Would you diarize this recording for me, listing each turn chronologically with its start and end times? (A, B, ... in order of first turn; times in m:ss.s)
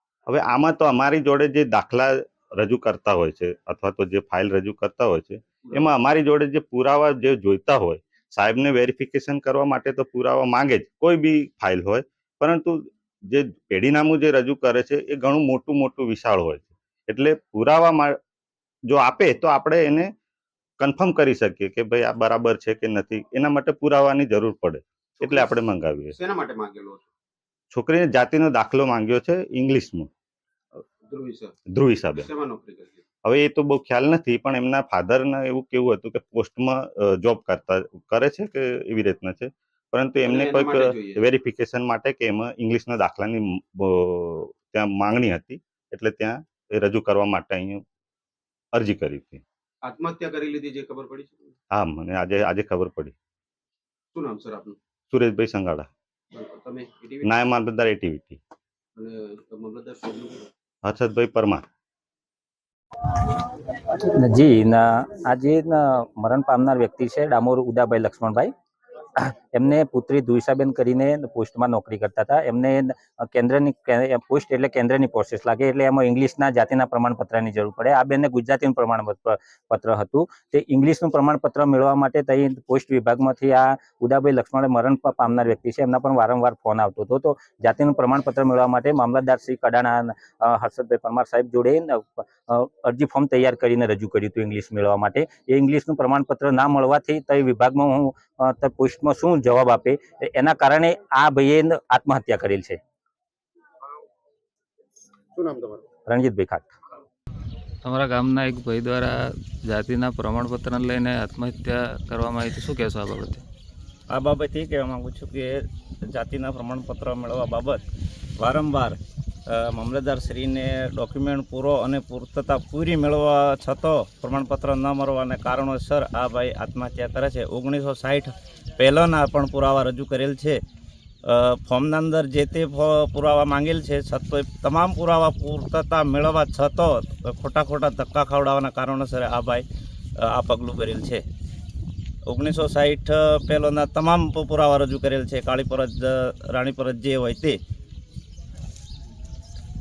0:00.3-0:18.1 A
0:05.6-0:05.9 B
0:18.9-0:20.1 A
0:20.8-0:26.1 A
0:25.2-0:25.5 B
0:26.1-0:27.1 B
0:27.7-0:30.1 A
0:31.1-0:31.6 B
0:31.7-0:32.2 A
0:32.1-0:33.0 B
0:33.2-0:47.8 A
0:40.2-0:41.2 B
0:48.7-0:49.4 A
0:49.8-0:51.5 B
0:51.7-0:53.1 A
0:54.1-0:54.8 B
0:55.1-0:55.9 A
0:56.3-0:57.3 B
0:57.2-0:58.4 A
0:59.0-1:00.5 B
1:00.8-1:01.6 A
1:03.3-1:08.5 C
1:09.1-1:42.8 C
1:45.3-1:45.8 B
1:46.1-1:46.7 C
1:47.8-1:53.4 D
1:54.1-1:57.8 E
1:58.4-1:59.0 E
1:59.5-2:10.6 E
2:11.2-2:19.6 E
2:20.2-2:21.2 E
2:22.3-2:27.6 E